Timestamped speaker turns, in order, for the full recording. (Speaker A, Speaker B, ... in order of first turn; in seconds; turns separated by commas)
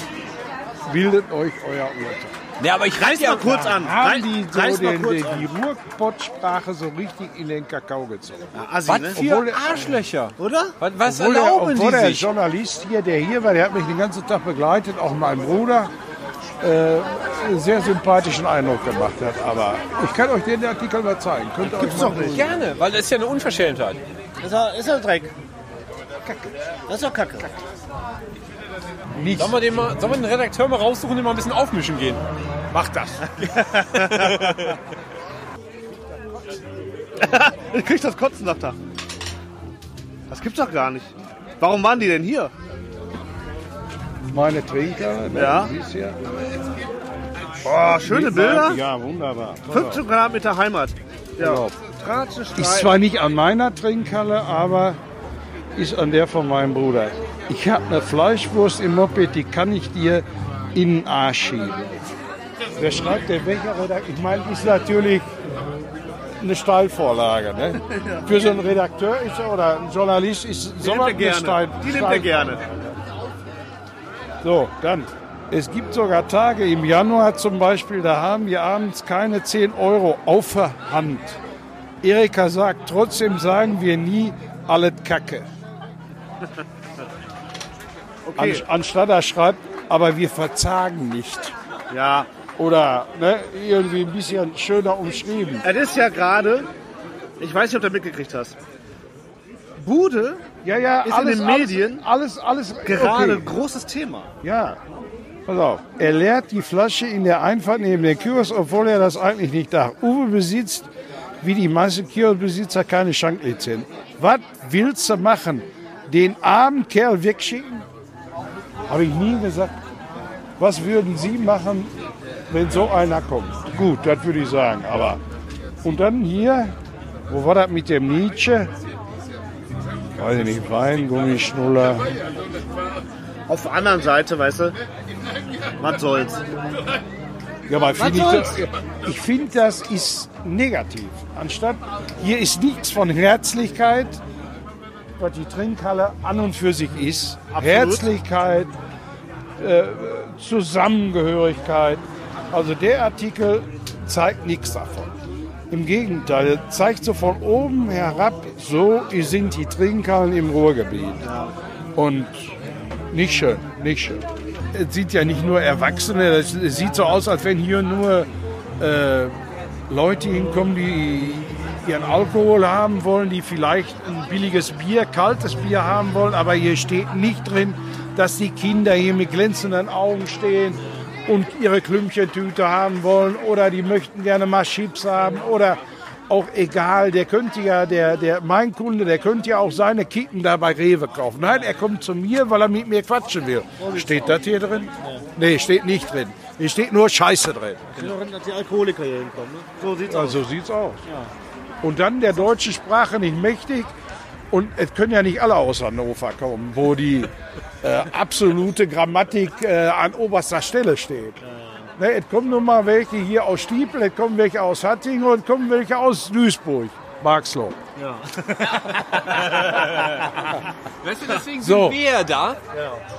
Speaker A: 0.8-2.4, Speaker B: 2.6-3.6, Speaker C: 2.9-5.5, Speaker A: 3.5-8.5, Speaker C: 8.5-9.2, Speaker B: 8.9-12.3, Speaker A: 9.1-10.0, Speaker C: 10.4-10.8, Speaker A: 11.0-15.9, Speaker A: 16.6-22.5, Speaker C: 21.6-22.5, Speaker B: 22.1-24.0, Speaker C: 24.4-25.3, Speaker A: 26.2-26.5, Speaker C: 26.9-27.5, Speaker A: 29.1-29.7, Speaker B: 29.4-32.2, Speaker A: 32.7-33.2, Speaker C: 33.4-34.6, Speaker B: 33.9-34.6, Speaker C: 37.2-38.8, Speaker C: 40.3-42.5, Speaker A: 44.3-46.2, Speaker C: 45.3-45.7, Speaker C: 47.6-48.8, Speaker A: 47.8-50.0, Speaker C: 49.7-52.9, Speaker A: 51.4-51.8, Speaker A: 52.5-55.0, Speaker A: 55.7-62.1, Speaker A: 62.8-65.3, Speaker A: 66.4-72.4, Speaker C: 67.9-68.3, Speaker C: 70.8-72.8, Speaker A: 74.4-81.4, Speaker A: 82.0-85.5, Speaker C: 88.2-88.6, Speaker A: 88.4-91.5, Speaker C: 91.9-92.3, Speaker A: 92.6-95.6, Speaker C: 95.6-96.7, Speaker C: 97.4-98.6, Speaker C: 99.8-102.0, Speaker A: 100.6-103.5, Speaker C: 102.8-104.3, Speaker A: 104.4-104.8, Speaker A: 105.5-110.9, Speaker A: 111.4-117.8, Speaker A: 118.9-119.8, Speaker A: 120.6-121.9, Speaker A: 122.5-125.2, Speaker A: 125.8-126.7, Speaker A: 127.3-128.7, Speaker A: 130.2-132.2, Speaker C: 133.5-134.8, Speaker C: 135.8-136.4, Speaker A: 137.7-144.2, Speaker C: 138.0-138.6, Speaker A: 145.2-148.7, Speaker C: 147.5-148.0, Speaker A: 149.6-155.1, Speaker A: 155.7-161.2, Speaker A: 161.9-162.5, Speaker A: 163.1-169.4, Speaker A: 169.9-198.0, Speaker C: 193.8-194.5, Speaker C: 197.9-200.4, Speaker A: 200.1-201.0, Speaker A: 201.8-203.9, Speaker A: 204.5-211.4, Speaker C: 211.4-211.9, Speaker A: 212.0-217.8, Speaker C: 217.9-220.0, Speaker B: 219.5-220.2, Speaker B: 221.0-222.6, Speaker A: 221.6-222.0, Speaker C: 222.7-223.0